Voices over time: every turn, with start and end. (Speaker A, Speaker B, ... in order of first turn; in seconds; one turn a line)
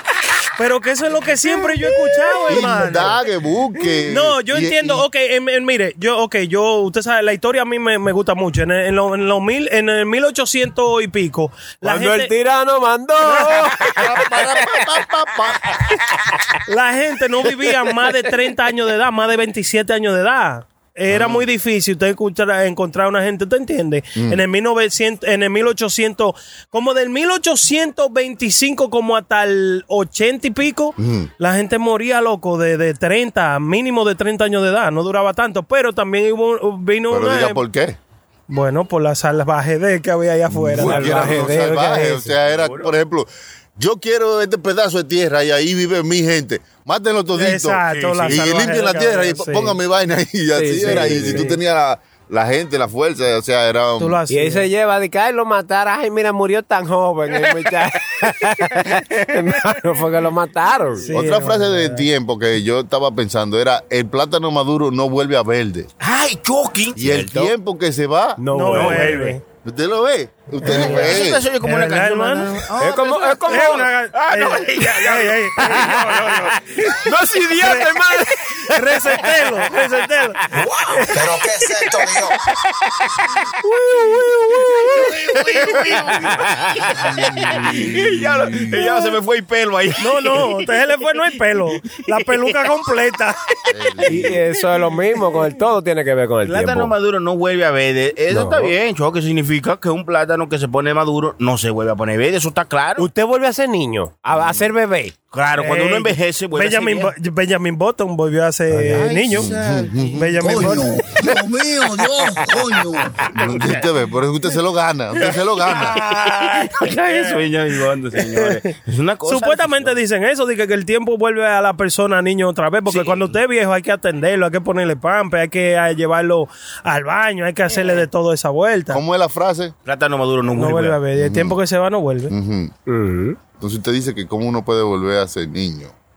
Speaker A: 0.6-3.2
Speaker B: 2.5-5.0
Speaker A: 4.0-12.3
Speaker C: 11.8-14.8
Speaker A: 13.2-13.7
Speaker B: 13.9-15.7
Speaker C: 16.2-16.4
Speaker A: 16.7-37.6
Speaker B: 21.1-21.4
Speaker B: 24.2-24.4
Speaker B: 31.0-31.3
Speaker B: 37.1-38.0
Speaker A: 38.5-41.6
Speaker B: 40.5-54.2
Speaker C: 40.7-42.3
Speaker D: 42.5-42.9
Speaker A: 47.3-49.8
Speaker D: 47.9-48.5
Speaker C: 50.5-51.5
Speaker A: 50.8-51.6
Speaker A: 54.0-54.7
Speaker C: 54.3-61.1
Speaker A: 61.0-62.1
Speaker B: 61.1-65.9
Speaker D: 66.0-67.5
Speaker B: 67.0-68.4
Speaker C: 68.4-69.3
Speaker A: 68.5-69.4
Speaker D: 68.7-69.4
Speaker B: 69.6-71.4
Speaker D: 70.6-77.0
Speaker A: 70.7-72.6
Speaker C: 72.8-73.9
Speaker A: 73.5-77.0
Speaker C: 75.6-76.0
Speaker C: 77.0-79.3
Speaker A: 77.6-78.0
Speaker A: 78.7-80.4
Speaker E: 80.7-82.4
Speaker A: 81.0-81.3
Speaker C: 83.6-87.1
Speaker D: 84.7-90.7
Speaker B: 87.5-88.7
Speaker A: 90.0-93.6
Speaker D: 91.9-92.5
Speaker B: 93.7-94.3
Speaker C: 94.0-96.9
Speaker D: 96.5-103.1
Speaker C: 98.3-98.7
Speaker C: 103.0-105.1
Speaker D: 105.3-107.1
Speaker A: 105.6-109.5
Speaker C: 108.7-109.4
Speaker D: 108.9-110.2
Speaker B: 109.4-110.3
Speaker A: 110.1-110.9
Speaker E: 110.4-113.3
Speaker B: 113.3-116.0
Speaker D: 113.3-113.8
Speaker A: 115.7-117.4
Speaker D: 115.8-120.0
Speaker A: 118.2-118.6
Speaker A: 119.3-129.0
Speaker D: 122.9-123.4
Speaker D: 127.7-128.1
Speaker B: 128.9-129.7
Speaker D: 129.8-131.0
Speaker A: 130.6-132.3
Speaker B: 131.1-131.6
Speaker B: 132.3-132.7
Speaker C: 132.9-133.4
Speaker B: 133.6-135.9